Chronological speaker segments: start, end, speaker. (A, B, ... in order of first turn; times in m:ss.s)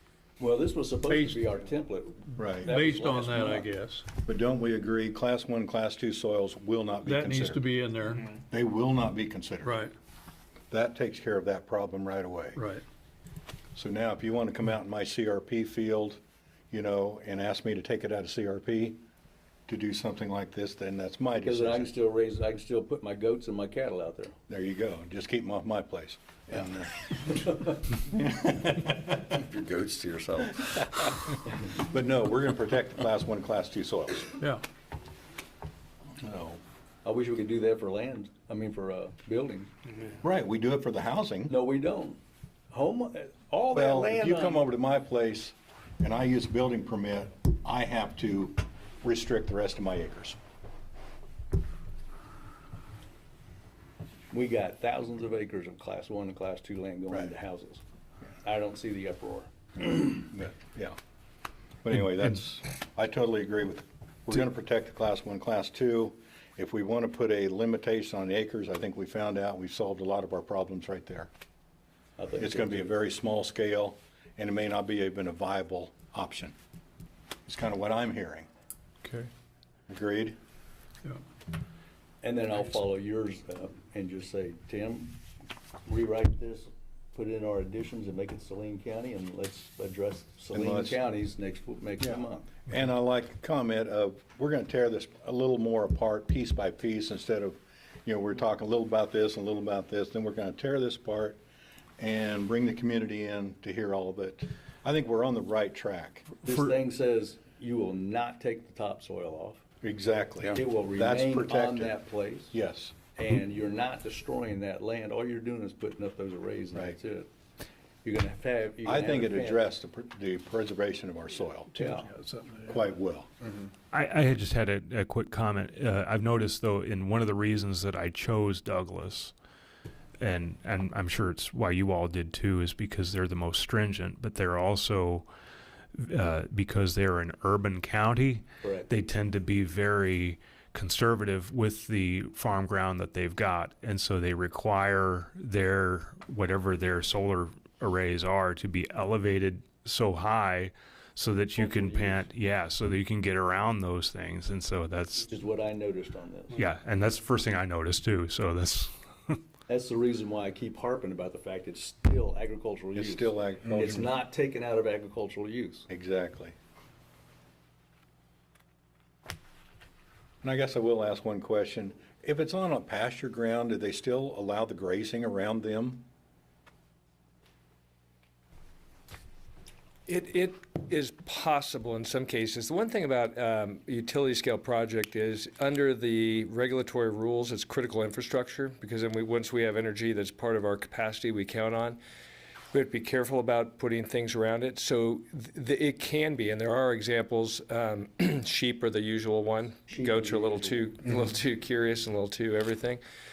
0:00.4-0:03.7 A
0:01.1-0:01.4 B
0:02.4-0:02.7 C
0:02.6-0:04.0 B
0:04.2-0:07.6 C
0:07.0-0:08.2 B
0:08.5-0:09.7 C
0:09.6-0:09.9 B
0:10.7-0:12.6 C
0:12.6-0:12.8 B
0:13.8-0:16.2 C
0:16.7-0:19.0 C
0:19.7-0:21.9 C
0:21.3-0:24.3 A
0:24.5-0:30.8 C
0:27.4-0:27.7 A
0:31.7-0:34.4 C
0:36.2-0:36.6 C
0:37.0-0:39.7 A
0:40.2-0:41.6 C
0:41.5-0:42.2 A
0:42.7-0:44.6 A
0:43.7-0:50.4 C
0:54.3-0:57.8 A
0:58.4-1:00.2 A
1:00.1-1:01.0 C
1:01.8-1:11.3 C
1:12.2-1:12.9 A
1:12.4-1:16.5 C
1:17.5-1:18.5 C
1:19.9-1:20.4 C
1:22.2-1:25.2 A
1:25.8-1:32.6 A
1:30.5-1:31.0 C
1:32.0-1:41.4 C
1:42.0-1:46.4 C
1:46.4-1:49.6 A
1:49.8-1:51.9 C
1:50.4-1:52.5 A
1:52.5-1:52.9 C
1:53.2-1:57.3 A
1:58.0-1:59.6 A
1:58.8-2:01.8 C
2:01.8-2:02.1 A
2:02.1-2:02.6 B
2:02.6-2:03.3 C
2:03.9-2:09.3 D
2:10.2-2:15.2 D
2:15.9-2:35.3 D
2:18.6-2:18.9 A
2:31.6-2:32.3 A
2:35.3-2:36.6 A
2:36.5-2:39.4 D
2:39.7-2:45.9 A
2:42.9-2:44.1 C
2:45.9-2:46.5 C
2:50.4-2:56.1 C
3:00.1-3:12.0 E
3:12.7-3:23.0 E
3:19.9-3:20.9 A